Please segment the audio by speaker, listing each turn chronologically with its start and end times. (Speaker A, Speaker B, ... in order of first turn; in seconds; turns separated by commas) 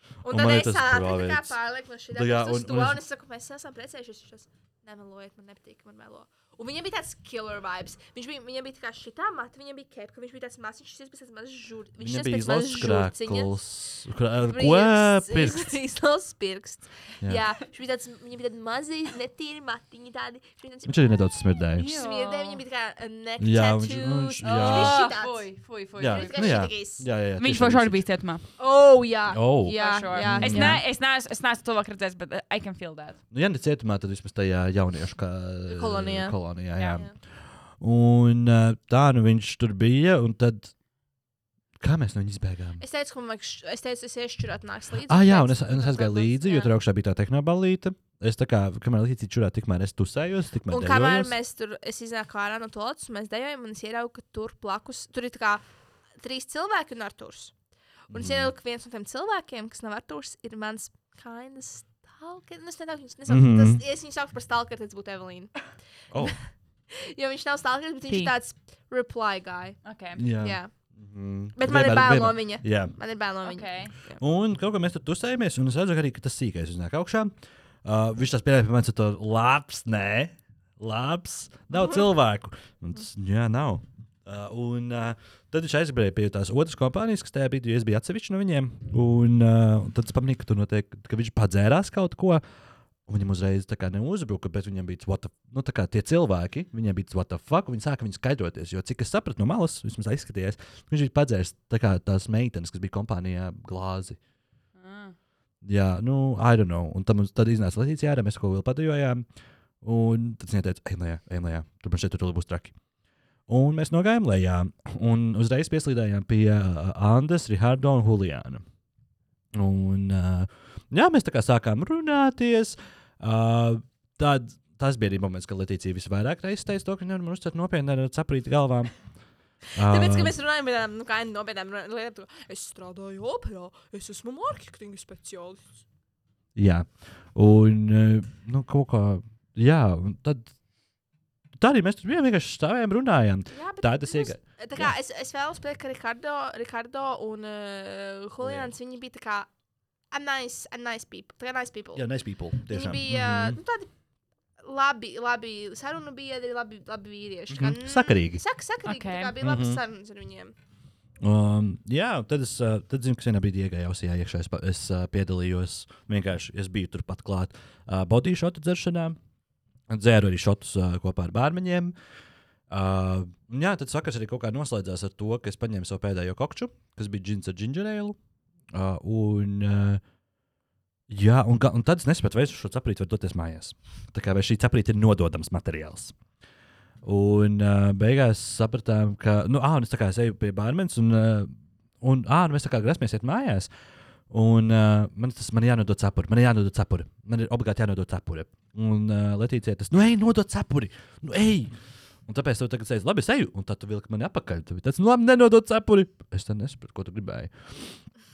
Speaker A: 0.2-13.6, Speaker B: 0.3-1.6, Speaker B: 2.1-3.0, Speaker B: 12.0-15.8, Speaker A: 14.5-25.5, Speaker B: 20.9-21.9, Speaker C: 21.7-22.6, Speaker B: 23.4-25.0, Speaker C: 24.4-26.7, Speaker B: 26.0-28.1, Speaker A: 26.1-27.0, Speaker C: 27.4-28.4, Speaker A: 28.6-30.8, Speaker B: 29.3-30.8, Speaker C: 29.7-33.2, Speaker B: 33.3-37.1, Speaker A: 35.7-37.1, Speaker B: 37.7-40.7, Speaker B: 41.8-42.8, Speaker A: 42.8-46.7, Speaker B: 45.1-51.3, Speaker A: 50.7-55.6, Speaker A: 56.2-57.5, Speaker A: 58.1-65.5, Speaker B: 58.1-58.5, Speaker B: 63.3-63.8, Speaker A: 66.9-69.8, Speaker C: 69.8-70.2, Speaker B: 70.2-72.9, Speaker A: 70.3-70.7, Speaker A: 71.5-74.2, Speaker C: 73.4-73.9, Speaker B: 74.2-77.3, Speaker B: 77.8-92.4, Speaker B: 93.1-104.2, Speaker C: 104.8-105.1, Speaker B: 105.6-109.2, Speaker B: 109.8-112.7, Speaker B: 113.5-118.6, Speaker B: 119.5-128.9, Speaker B: 129.7-130.3, Speaker A: 129.8-135.8, Speaker B: 136.5-140.5, Speaker B: 141.6-144.9, Speaker A: 143.5-149.5, Speaker B: 148.4-148.7, Speaker A: 150.1-152.1, Speaker B: 151.9-153.6, Speaker A: 152.6-153.9, Speaker A: 154.6-160.5, Speaker B: 157.5-158.4, Speaker C: 158.8-159.3, Speaker B: 159.4-159.8, Speaker B: 161.2-169.2, Speaker B: 169.9-171.9, Speaker B: 172.7-178.2, Speaker B: 178.7-180.0, Speaker B: 181.1-186.1, Speaker B: 187.0-193.7, Speaker B: 194.3-201.7, Speaker B: 202.2-208.0